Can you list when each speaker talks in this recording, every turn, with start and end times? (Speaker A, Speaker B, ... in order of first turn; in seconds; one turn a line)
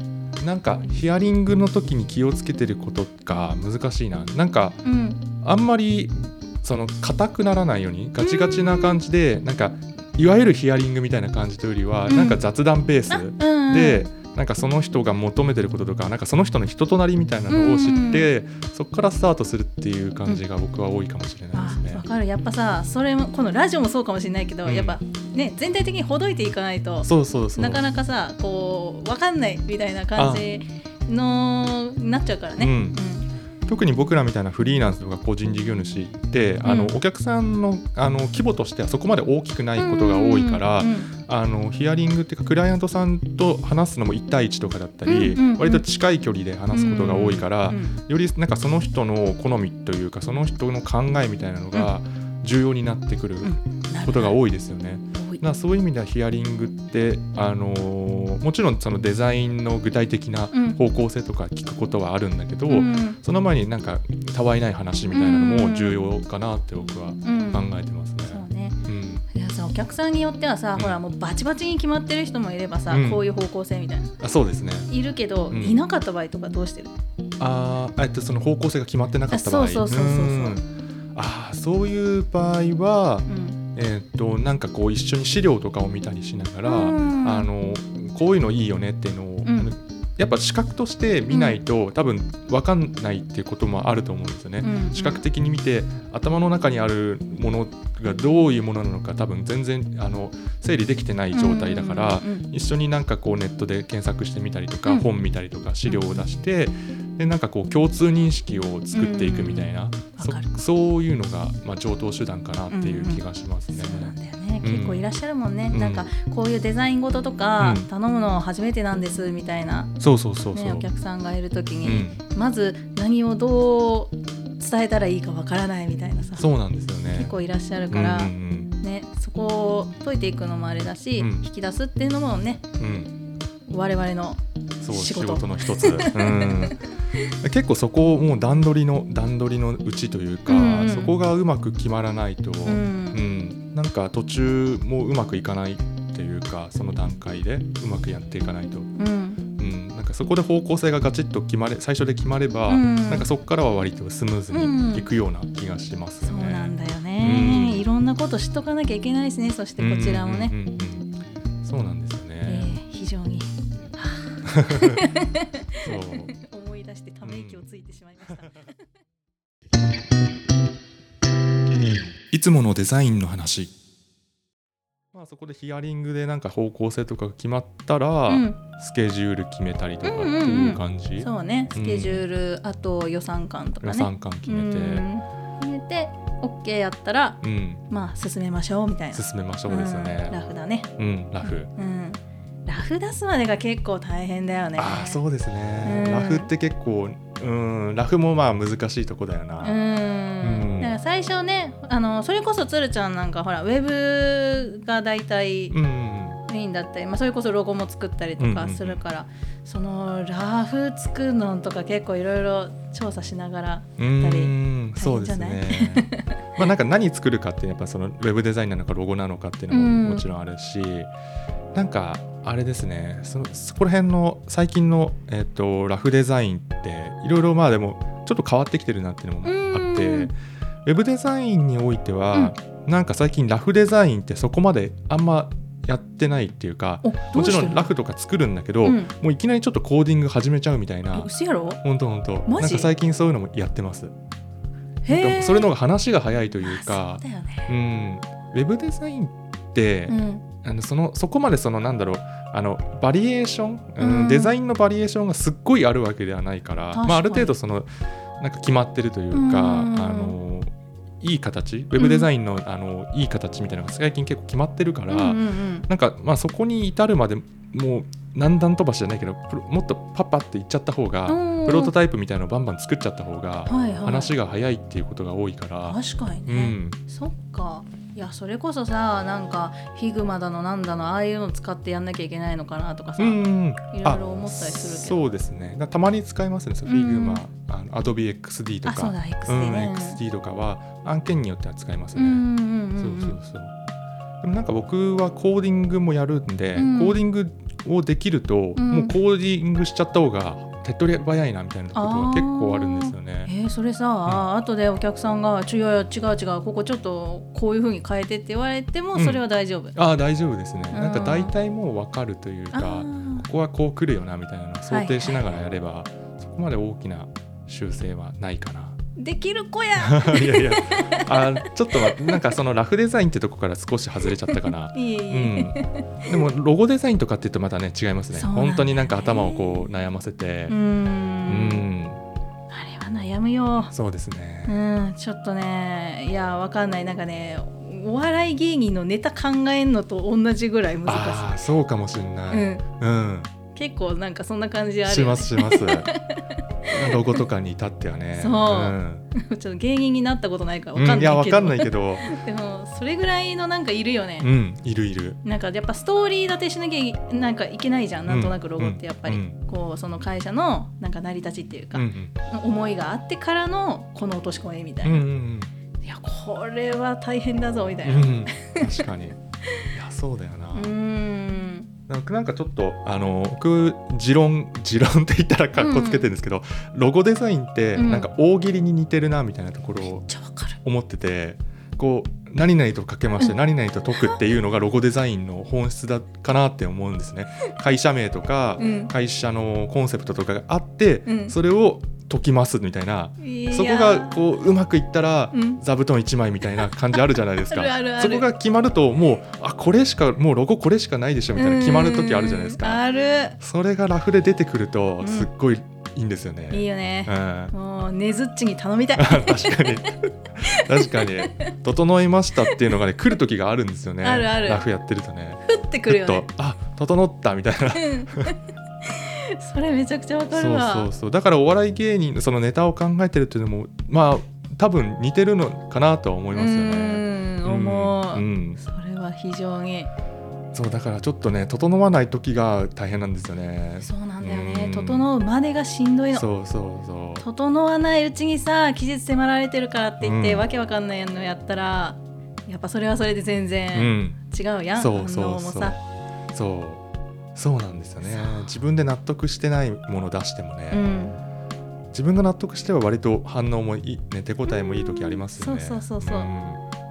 Speaker A: 0.4-4.8
Speaker B: 4.8-5.2
Speaker A: 5.4-22.0
Speaker B: 8.2-9.0
Speaker B: 12.1-12.4
Speaker B: 13.1-14.1
Speaker B: 17.5-18.3
Speaker B: 21.5-33.3
Speaker A: 24.6-25.0
Speaker A: 27.0-27.8
Speaker A: 30.2-30.5
Speaker A: 32.6-33.0
Speaker A: 33.7-69.2
Speaker B: 36.6-36.9
Speaker B: 39.8-41.1
Speaker B: 45.1-45.8
Speaker B: 46.7-48.0
Speaker B: 53.4-54.4
Speaker B: 55.1-55.4
Speaker B: 60.5-60.8
Speaker B: 62.7-63.2
Speaker B: 65.1-66.0
Speaker B: 67.2-67.7
Speaker B: 68.3-74.1
Speaker A: 72.9-73.2
Speaker A: 74.2-74.9
Speaker B: 74.9-76.9
Speaker A: 75.5-75.8
Speaker A: 77.4-80.7
Speaker B: 79.3-80.6
Speaker A: 81.2-115.0
Speaker B: 83.3-83.6
Speaker B: 86.7-87.5
Speaker B: 89.5-89.7
Speaker B: 91.3-91.6
Speaker B: 94.6-95.2
Speaker B: 101.3-102.5
Speaker B: 105.9-106.2
Speaker B: 108.9-110.5
Speaker B: 112.7-119.9
Speaker A: 115.7-116.1
Speaker A: 117.6-117.9
Speaker A: 120.0-120.9
Speaker B: 120.5-126.5
Speaker A: 121.8-122.2
Speaker A: 126.4-127.3
Speaker B: 127.1-132.6
Speaker A: 127.9-128.7
Speaker A: 131.2-131.5
Speaker A: 132.8-133.1
Speaker B: 133.7-137.2
Speaker A: 134.8-136.8
Speaker A: 137.4-148.9
Speaker B: 140.5-141.2
Speaker B: 142.7-143.2
Speaker B: 149.0-149.4
Speaker A: 149.6-157.9
Speaker B: 152.7-153.3
Speaker B: 154.5-155.1
Speaker B: 156.2-160.5
Speaker A: 159.8-162.7
Speaker B: 162.5-168.8
Speaker A: 164.4-165.1
Speaker A: 165.8-166.3
Speaker A: 167.2-167.6
Speaker A: 168.3-168.6
Speaker A: 172.3-173.7
Speaker A: 175.1-182.2
Speaker B: 178.3-178.6
Speaker B: 180.0-190.9
Speaker A: 183.8-185.1
Speaker A: 187.4-187.8
Speaker A: 189.1-190.4
Speaker A: 191.0-191.7
Speaker B: 191.4-195.2
Speaker A: 194.8-199.8
Speaker B: 195.8-196.5
Speaker B: 199.6-205.8
Speaker A: 200.4-200.9
Speaker A: 205.7-206.4
Speaker B: 206.5-216.3
Speaker A: 208.4-209.0
Speaker A: 214.0-221.1
Speaker B: 219.7-220.2
Speaker A: 221.8-230.3
Speaker B: 229.4-230.3
Speaker A: 230.8-241.3
Speaker B: 237.0-237.9
Speaker B: 238.8-239.1
Speaker B: 241.1-241.8
Speaker A: 241.8-244.1
Speaker B: 242.5-242.9
Speaker B: 245.1-245.7
Speaker A: 245.1-260.7
Speaker B: 246.6-247.7
Speaker B: 250.1-250.5
Speaker B: 254.0-254.6
Speaker B: 256.9-257.5
Speaker B: 259.3-260.4
Speaker A: 261.2-277.0
Speaker B: 262.0-262.3
Speaker B: 265.1-265.9
Speaker B: 271.3-271.9
Speaker B: 273.7-274.3
Speaker B: 275.8-285.2
Speaker A: 283.2-292.4
Speaker B: 286.9-287.4
Speaker B: 288.9-290.2
Speaker B: 292.1-293.4
Speaker A: 293.0-293.7
Speaker A: 294.4-303.5
Speaker B: 296.8-297.2
Speaker B: 298.8-299.1
Speaker B: 301.9-310.0
Speaker A: 309.1-309.4
Speaker A: 309.9-319.0
Speaker B: 310.9-311.5
Speaker B: 312.7-313.5
Speaker B: 314.9-315.4
Speaker B: 319.2-322.4
Speaker A: 320.0-330.8
Speaker B: 324.5-326.4
Speaker B: 328.3-329.9
Speaker B: 330.7-331.8
Speaker A: 331.5-332.2
Speaker B: 332.7-333.9
Speaker A: 333.8-334.8
Speaker B: 334.7-341.6
Speaker A: 341.1-343.5
Speaker B: 342.5-342.8
Speaker B: 343.7-347.4
Speaker A: 345.1-346.1
Speaker A: 346.9-349.2
Speaker B: 348.4-354.5
Speaker A: 351.0-352.3
Speaker A: 354.4-355.4
Speaker B: 355.4-365.3
Speaker A: 358.3-359.6
Speaker A: 361.9-362.3
Speaker A: 365.0-365.7
Speaker B: 366.0-369.0
Speaker A: 368.0-369.4
Speaker A: 369.9-370.9
Speaker B: 370.7-371.9
Speaker A: 372.1-380.3
Speaker B: 375.8-376.3
Speaker B: 378.0-378.3
Speaker B: 380.0-380.8
Speaker A: 380.8-403.0
Speaker B: 388.8-389.1
Speaker B: 391.3-391.6
Speaker B: 393.4-394.4
Speaker B: 395.5-395.8
Speaker B: 396.8-398.5
Speaker B: 401.6-403.6
Speaker A: 403.6-407.7
Speaker B: 405.2-405.5
Speaker B: 406.7-410.0
Speaker A: 409.2-418.6
Speaker B: 410.6-411.5
Speaker B: 414.2-414.9
Speaker B: 415.6-416.5
Speaker B: 418.0-418.5
Speaker B: 419.0-421.1
Speaker A: 420.5-428.8
Speaker B: 426.5-430.1
Speaker A: 430.7-435.3
Speaker B: 434.0-436.5
Speaker A: 436.3-437.5
Speaker B: 437.4-446.0
Speaker A: 440.2-440.7
Speaker A: 443.9-444.4
Speaker A: 445.0-446.0
Speaker A: 446.5-447.0
Speaker A: 447.6-451.0
Speaker B: 448.2-448.8
Speaker B: 450.9-451.4
Speaker A: 452.1-456.8
Speaker B: 454.7-456.5